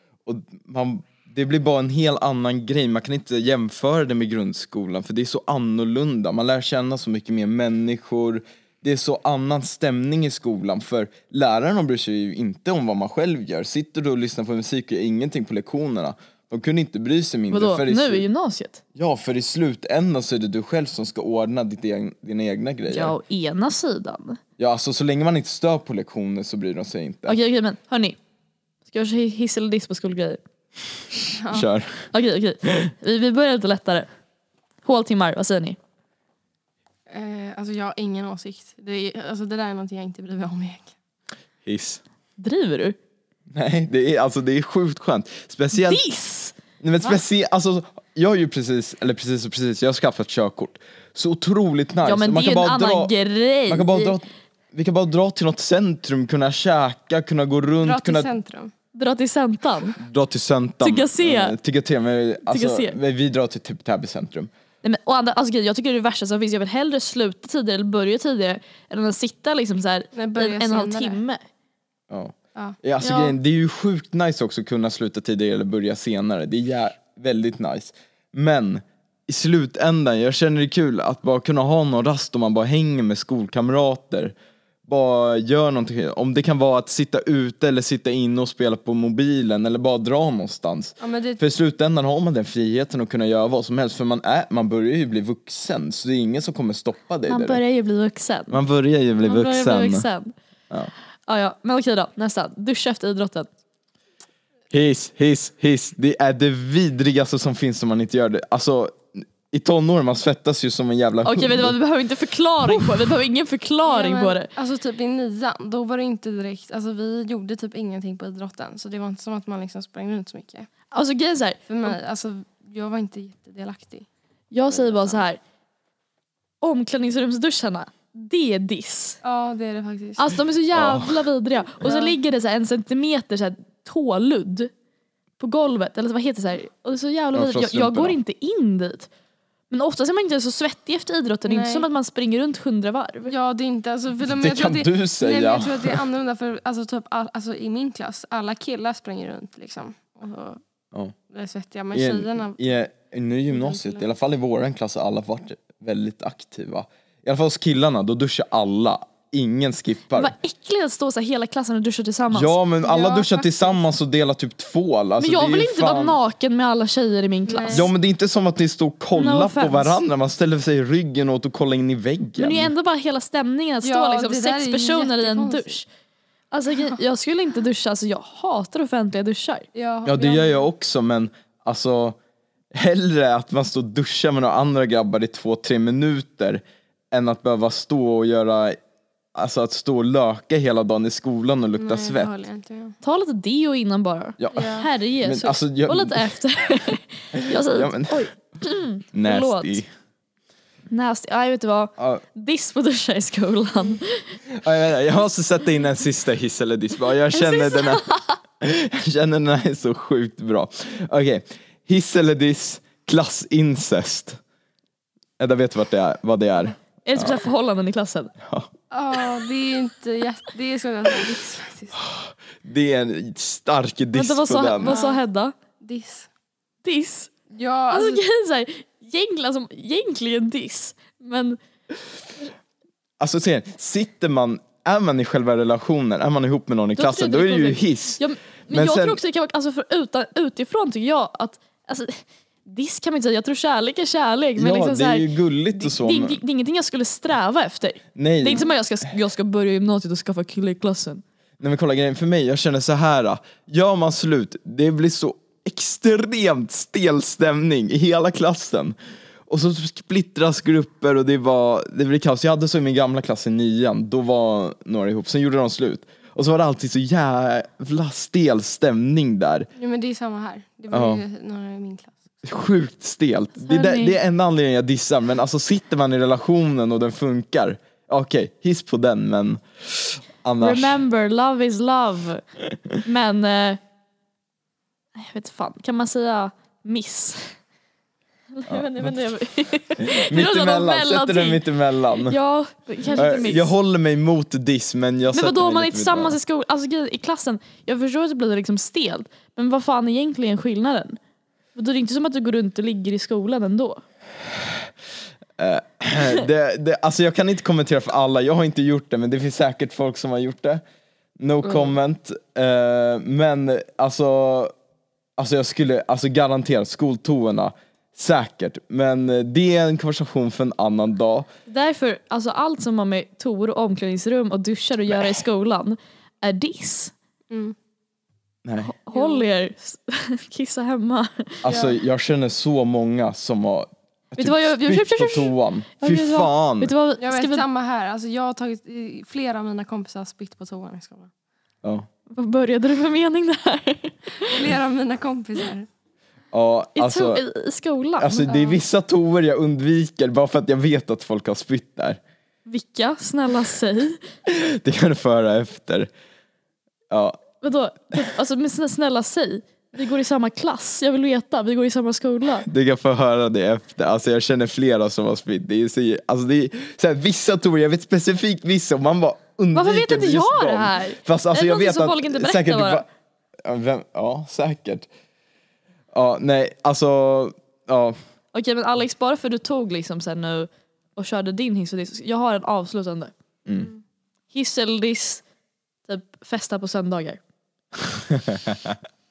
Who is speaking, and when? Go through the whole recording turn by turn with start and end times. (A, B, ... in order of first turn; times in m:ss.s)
0:00.2-0:18.2 A
0:17.5-0:18.8 B
0:18.9-0:23.1 A
0:22.9-0:24.4 B
0:24.6-0:27.4 A
0:27.3-0:28.2 B
0:28.9-0:30.4 B
0:31.4-0:31.7 C
0:31.5-0:32.1 A
0:32.1-0:34.1 B
0:34.8-0:35.8 B
0:37.1-0:40.9 C
0:41.6-0:42.0 A
0:42.4-0:43.0 B
0:43.5-0:46.0 A
0:45.7-0:46.5 B
0:46.8-0:53.1 A
0:52.0-0:54.2 B
0:53.7-0:58.3 A
0:57.8-0:58.7 C
0:58.9-1:00.0 B
1:00.0-1:04.5 A
1:00.8-1:01.6 B
1:02.5-1:03.0 B
1:04.8-1:11.4 B
1:10.1-1:11.2 C
1:12.1-1:24.3 A
1:13.0-1:13.4 B
1:24.9-1:37.6 A
1:31.0-1:31.4 C
1:37.3-1:38.6 B
1:38.5-1:40.1 A
1:39.2-1:40.3 B
1:41.3-1:43.5 B
1:44.7-1:51.7 A
1:51.2-1:54.5 B
1:52.6-1:53.1 A
1:53.8-2:00.7 C
2:00.9-2:01.9 B
2:01.7-2:04.1 C
2:04.5-2:05.4 B
2:04.7-2:05.2 C
2:06.6-2:09.2 B
2:09.2-2:10.2 C
2:10.2-2:14.7 B
2:10.7-2:11.2 A
2:11.8-2:12.2 C
2:15.4-2:19.1 B
2:17.3-2:18.2 A
2:19.7-2:23.3 B
2:21.4-2:21.9 C
2:23.3-2:30.6 C
2:24.2-2:26.0 A
2:31.3-2:32.6 C
2:31.9-2:40.3 A
2:33.5-2:34.0 C
2:40.1-2:42.6 B
2:42.3-2:46.2 A
2:42.8-2:43.8 C
2:45.2-2:47.9 B
2:47.5-2:47.9 C
2:47.7-2:52.7 A
2:49.1-2:50.0 B
2:52.4-2:55.8 B
2:53.8-2:55.8 C
2:56.5-2:59.6 B
2:59.7-3:00.6 C
3:00.0-3:02.2 A
3:02.7-3:08.8 A
3:09.3-3:12.3 A
3:11.8-3:13.0 C
3:13.0-3:19.8 B
3:14.4-3:16.3 A
3:14.5-3:14.9 C
3:17.3-3:18.3 A
3:19.1-3:19.9 A
3:20.9-3:24.4 B
3:22.0-3:22.2 A
3:24.5-3:28.0 A
3:27.3-3:28.4 B
3:28.6-3:34.4 A
3:35.4-3:37.4 A
3:37.0-3:38.3 B
3:38.4-3:38.7 A
3:38.9-3:42.0 C
3:42.0-3:45.0 A
3:44.1-3:45.5 B
3:44.8-3:45.2 C
3:45.8-3:46.3 C
3:46.8-3:47.3 B
3:47.5-3:48.2 C
3:47.9-3:51.6 B
3:53.2-3:59.2 A
3:57.0-4:11.2 B
4:04.6-4:06.4 A
4:08.1-4:08.7 A
4:11.6-4:18.9 A
4:19.5-4:29.7 A
4:29.8-4:32.3 C
4:30.9-4:31.2 A
4:32.4-4:41.0 A
4:33.6-4:34.2 B
4:40.6-4:42.4 B
4:43.0-4:43.8 B
4:45.2-4:47.5 B
4:48.5-4:53.7 B
4:48.7-4:49.2 A
4:50.0-4:52.4 A
4:53.1-4:56.4 A
4:55.3-5:01.2 B
5:01.7-5:04.0 B
5:05.6-5:10.8 A
5:11.4-5:14.7 A
5:11.6-5:11.9 B
5:15.4-5:21.5 A
5:21.7-5:27.1 B
5:25.1-5:25.4 A
5:27.5-5:27.7 C
5:28.6-5:28.9 A
5:28.8-5:31.6 B
5:29.1-5:29.5 C
5:31.6-5:32.0 C
5:31.6-5:36.9 A
5:34.4-5:37.6 B
5:37.2-5:41.3 C
5:42.3-5:44.7 B
5:44.4-5:45.9 C
5:46.5-5:47.4 A
5:47.0-5:48.6 B
5:48.2-5:52.2 A
5:48.4-5:48.8 C
5:52.7-5:54.2 B
5:54.5-5:56.1 A
5:57.1-5:57.4 A
5:57.6-6:02.7 B
6:02.6-6:13.0 A
6:09.7-6:13.0 B
6:13.6-6:15.1 A
6:16.1-6:18.2 A
6:18.5-6:23.3 B
6:24.5-6:25.4 B
6:26.1-6:27.4 B
6:28.3-6:29.0 A